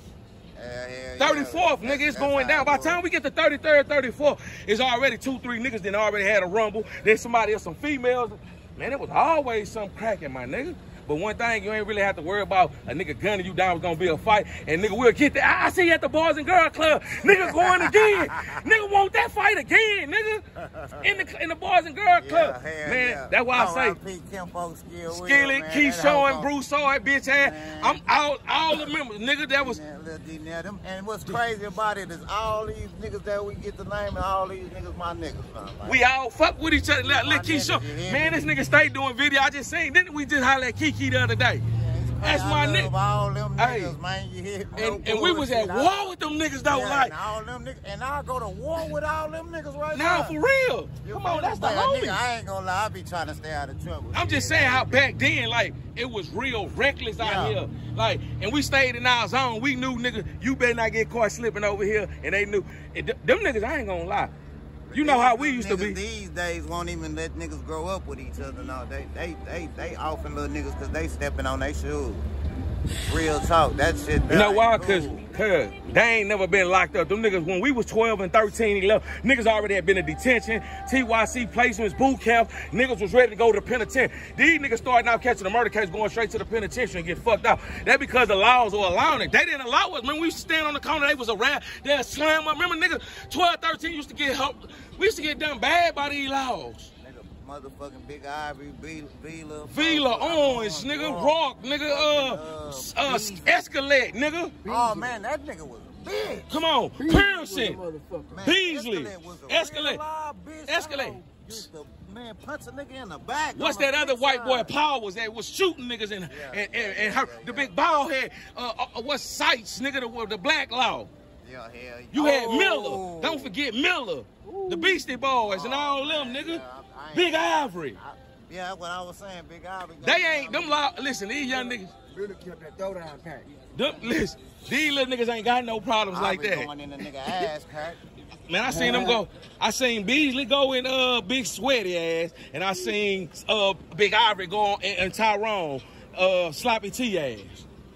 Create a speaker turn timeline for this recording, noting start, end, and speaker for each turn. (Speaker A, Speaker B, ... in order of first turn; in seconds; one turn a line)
Speaker A: 0.6-3.0
Speaker B: 1.2-20.4
Speaker A: 17.2-18.6
Speaker A: 20.6-21.2
Speaker B: 21.0-24.0
Speaker A: 22.1-26.5
Speaker B: 25.1-29.8
Speaker A: 27.4-28.0
Speaker A: 29.5-36.0
Speaker B: 35.8-41.6
Speaker A: 37.0-38.4
Speaker A: 41.7-46.0
Speaker B: 42.2-42.9
Speaker B: 43.6-44.0
Speaker B: 44.7-47.1
Speaker A: 46.7-50.4
Speaker B: 49.9-52.2
Speaker A: 51.0-55.0
Speaker B: 54.1-64.3
Speaker A: 57.2-57.6
Speaker A: 64.9-72.2
Speaker B: 64.9-66.0
Speaker A: 73.0-75.2
Speaker B: 74.3-96.9
Speaker A: 97.0-103.7
Speaker B: 99.7-104.5
Speaker C: 104.6-105.1
Speaker A: 104.7-106.6
Speaker B: 106.5-107.8
Speaker C: 106.9-108.3
Speaker A: 108.3-114.7
Speaker B: 108.4-110.0
Speaker B: 110.7-111.6
Speaker B: 113.5-121.1
Speaker A: 116.3-117.7
Speaker A: 121.4-123.5
Speaker B: 122.1-126.6
Speaker C: 124.5-125.1
Speaker A: 125.4-130.8
Speaker B: 127.1-128.0
Speaker B: 130.0-131.9
Speaker C: 131.5-133.6
Speaker B: 133.7-136.7
Speaker A: 133.7-134.2
Speaker A: 136.1-138.0
Speaker B: 138.5-147.7
Speaker C: 138.7-139.2